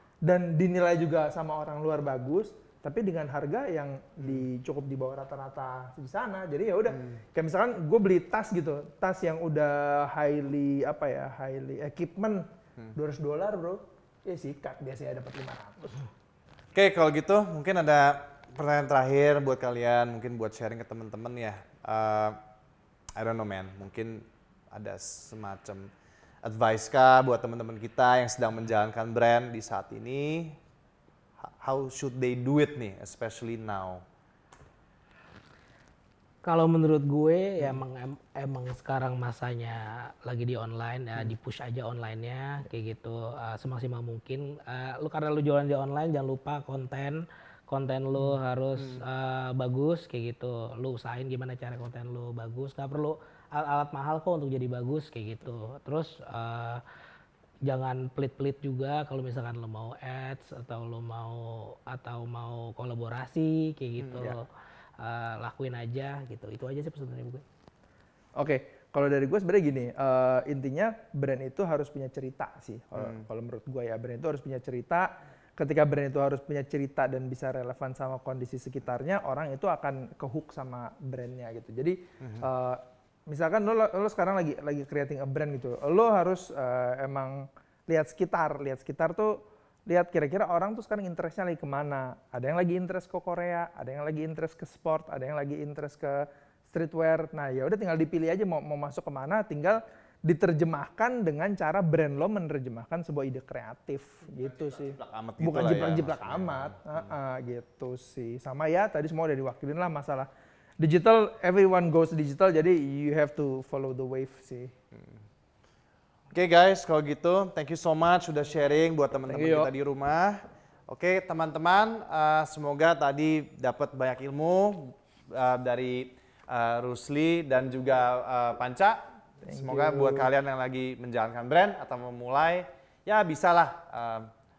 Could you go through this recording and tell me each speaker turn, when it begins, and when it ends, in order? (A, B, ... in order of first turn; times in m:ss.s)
0:00.2-0:16.1 A
0:04.2-0:04.5 B
0:06.9-0:07.2 B
0:16.7-0:22.4 B
0:23.2-0:25.9 B
0:26.4-0:30.6 B
0:31.4-0:34.0 B
0:36.4-0:56.8 C
0:48.8-0:49.0 B
0:57.7-1:04.5 C
1:04.0-1:04.3 B
1:05.0-1:07.4 C
1:08.4-1:50.3 A
1:13.0-1:13.2 B
1:22.2-1:22.5 B
1:44.5-1:47.1 B
1:50.8-1:54.7 A
1:54.9-1:55.2 B
1:56.3-2:14.3 B
1:59.3-1:59.7 A
2:09.4-2:10.3 A